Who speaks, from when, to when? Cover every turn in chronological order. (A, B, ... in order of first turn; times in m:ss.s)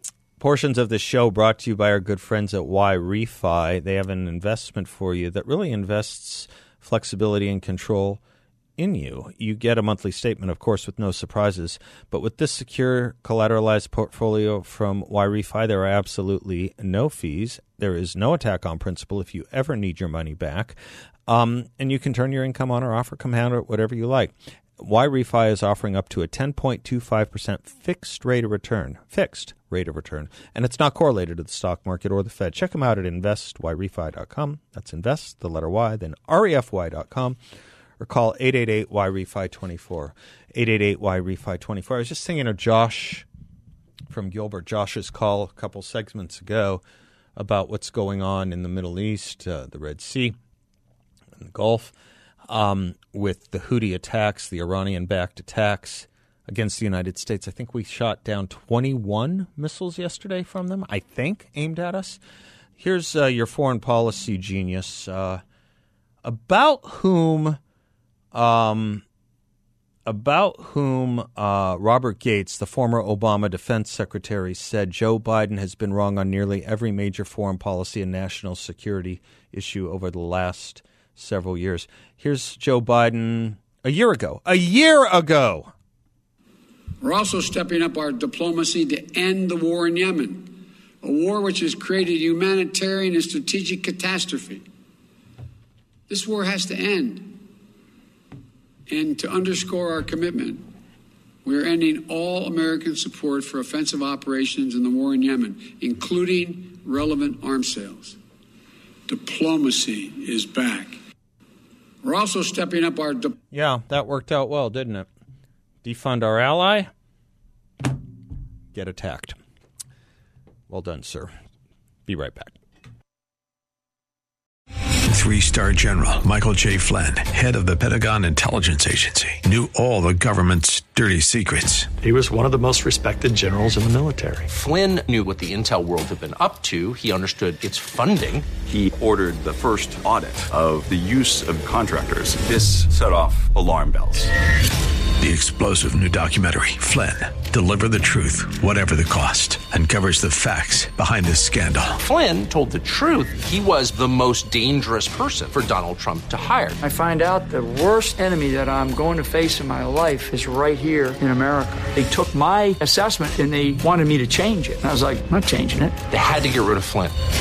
0:00.4-0:08.2 A
0:08.8-0:37.4 A
0:38.0-0:43.3 A
0:44.1-0:46.8 A
0:47.4-0:50.4 A
0:51.4-0:51.9 A
0:52.5-1:02.2 A
1:02.8-1:05.4 A
1:06.2-1:07.6 A
1:08.3-1:09.0 A
1:10.0-1:25.7 A
1:27.0-1:34.6 B
1:36.1-1:37.4 B
1:38.9-1:40.7 B
1:41.4-1:48.2 B
1:49.1-1:51.0 B
1:52.0-1:53.4 B
1:53.5-1:55.1 A
1:55.8-1:56.9 A
1:58.7-1:59.4 A
2:00.7-2:01.3 A
2:02.1-2:02.6 A
2:05.1-2:12.0 C
2:12.0-2:14.5 D
2:14.5-2:18.5 E
2:18.7-2:24.3 F
2:25.2-2:32.0 C
2:32.0-2:36.8 E
2:36.8-2:46.0 G
2:46.1-2:47.2 E